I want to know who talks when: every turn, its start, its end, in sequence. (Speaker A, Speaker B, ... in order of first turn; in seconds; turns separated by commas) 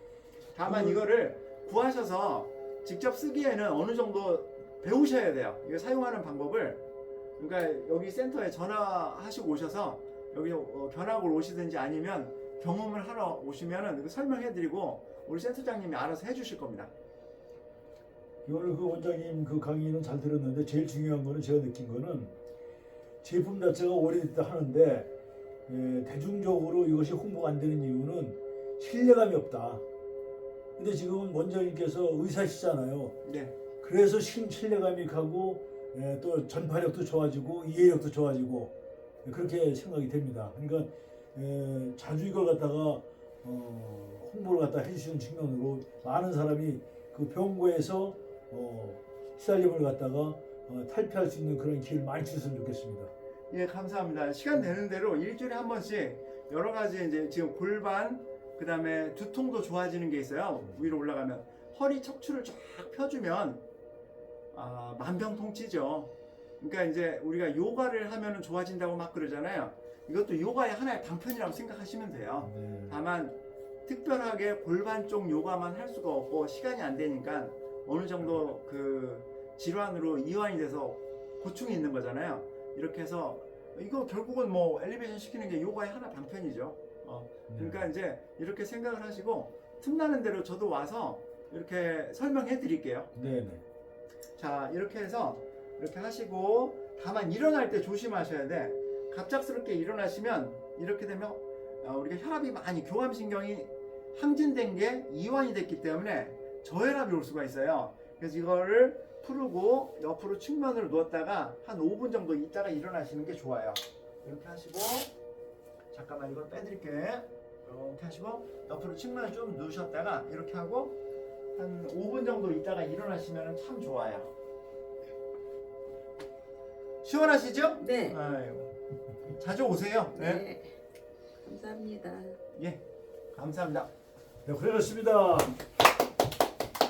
Speaker A: 0.5-6.8, Speaker B: 0.6-1.0, Speaker A: 7.4-16.9, Speaker B: 18.4-22.4, Speaker B: 23.2-25.1, Speaker B: 25.7-29.8, Speaker B: 30.8-33.1, Speaker A: 33.2-33.5, Speaker B: 33.8-53.1, Speaker A: 53.5-63.6, Speaker A: 64.5-93.1, Speaker B: 72.4-73.0, Speaker B: 87.5-87.9, Speaker B: 93.1-93.6, Speaker A: 94.4-115.1, Speaker A: 115.9-121.0, Speaker A: 121.5-124.3, Speaker A: 127.0-128.7, Speaker C: 127.8-128.2, Speaker A: 129.4-130.4, Speaker C: 130.1-130.8, Speaker C: 131.4-132.4, Speaker A: 132.5-133.9, Speaker B: 134.4-135.5